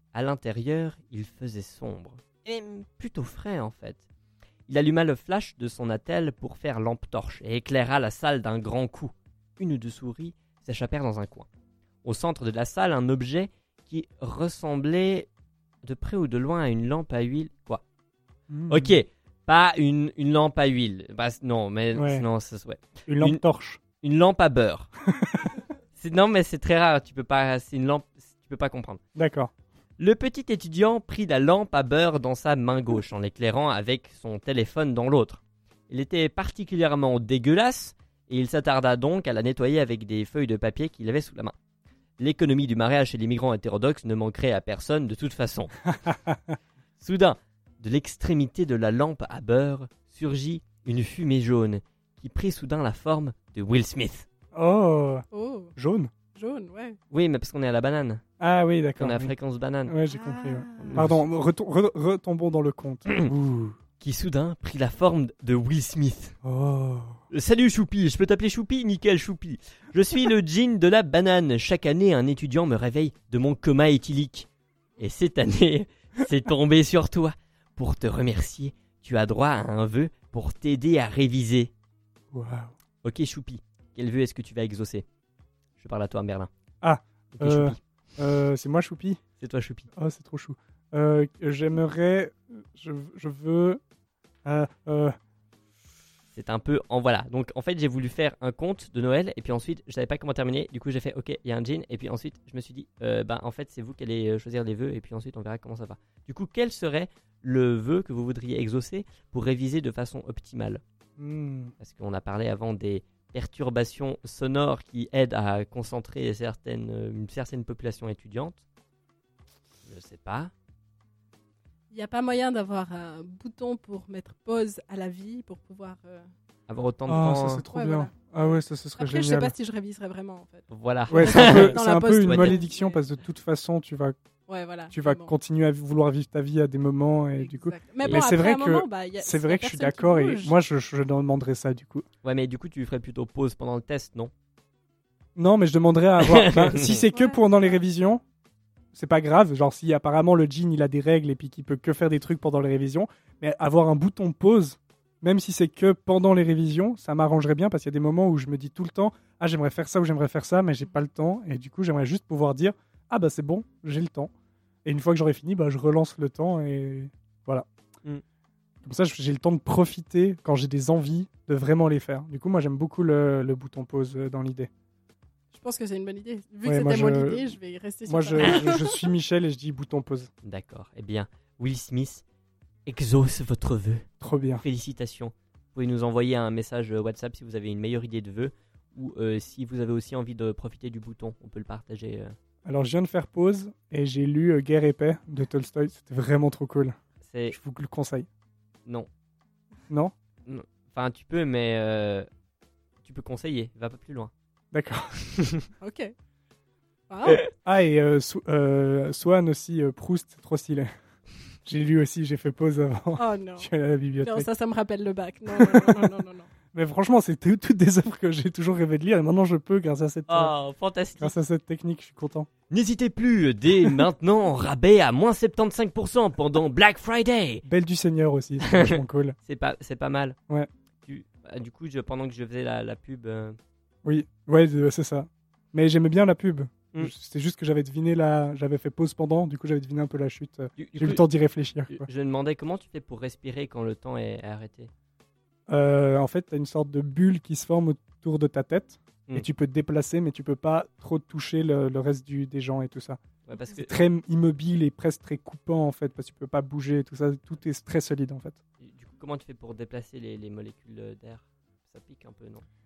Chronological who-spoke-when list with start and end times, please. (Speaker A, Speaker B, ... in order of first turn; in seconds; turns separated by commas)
Speaker A: 0.1-4.0, Speaker A: 4.7-11.5, Speaker A: 12.0-15.3, Speaker A: 15.8-17.8, Speaker B: 18.5-18.9, Speaker A: 18.7-23.4, Speaker B: 21.9-22.3, Speaker B: 23.1-23.8, Speaker A: 24.0-24.9, Speaker B: 25.2-25.5, Speaker A: 26.0-29.0, Speaker B: 29.1-29.5, Speaker A: 30.0-41.5, Speaker A: 42.2-45.7, Speaker B: 46.0-46.5, Speaker A: 47.0-54.3, Speaker B: 54.5-55.2, Speaker C: 55.3-55.7, Speaker B: 55.8-56.1, Speaker C: 56.3-57.0, Speaker A: 57.1-58.2, Speaker B: 58.4-59.3, Speaker A: 59.0-60.0, Speaker B: 59.9-63.8, Speaker C: 60.1-60.8, Speaker A: 60.8-61.2, Speaker A: 64.0-66.4, Speaker B: 66.4-67.2, Speaker A: 67.3-74.5, Speaker A: 75.0-81.7, Speaker B: 82.3-82.7, Speaker A: 83.0-85.0, Speaker A: 85.8-86.5, Speaker B: 86.8-89.2, Speaker A: 87.3-87.8, Speaker A: 89.4-89.9, Speaker B: 90.0-93.8, Speaker B: 94.5-95.1, Speaker A: 96.3-110.8, Speaker B: 111.2-111.7, Speaker A: 111.8-118.6, Speaker A: 119.9-120.5, Speaker C: 121.9-126.3, Speaker A: 126.7-127.6, Speaker B: 127.1-129.5, Speaker C: 127.7-133.1, Speaker A: 130.7-132.6, Speaker B: 131.1-134.2, Speaker C: 134.5-135.3, Speaker B: 134.9-142.1, Speaker C: 137.4-140.6, Speaker A: 142.2-144.3, Speaker B: 145.4-148.2, Speaker A: 146.2-147.0, Speaker C: 147.1-147.8, Speaker B: 148.9-164.3, Speaker B: 164.8-167.7, Speaker B: 168.8-174.7, Speaker C: 175.5-179.0, Speaker B: 176.6-177.5, Speaker B: 178.1-180.3, Speaker A: 180.4-182.2, Speaker A: 182.9-184.1, Speaker B: 184.2-184.6, Speaker A: 184.6-192.3, Speaker B: 192.6-196.9, Speaker A: 197.2-197.6, Speaker B: 197.5-198.3, Speaker A: 200.4-202.3, Speaker A: 203.0-204.3, Speaker B: 204.7-205.1, Speaker C: 205.8-206.1, Speaker C: 207.1-207.4, Speaker B: 207.6-210.9, Speaker B: 211.6-214.5, Speaker C: 213.2-213.7, Speaker C: 214.2-216.5, Speaker B: 215.5-216.1, Speaker B: 216.7-220.5, Speaker A: 220.3-221.3, Speaker B: 221.2-222.5, Speaker A: 222.7-227.6, Speaker B: 227.7-229.4, Speaker A: 228.6-230.4, Speaker A: 231.1-233.6, Speaker B: 234.0-242.1, Speaker A: 240.8-241.2, Speaker A: 241.9-244.9, Speaker B: 245.7-253.2, Speaker A: 253.4-254.0, Speaker B: 253.7-258.6, Speaker A: 258.8-262.7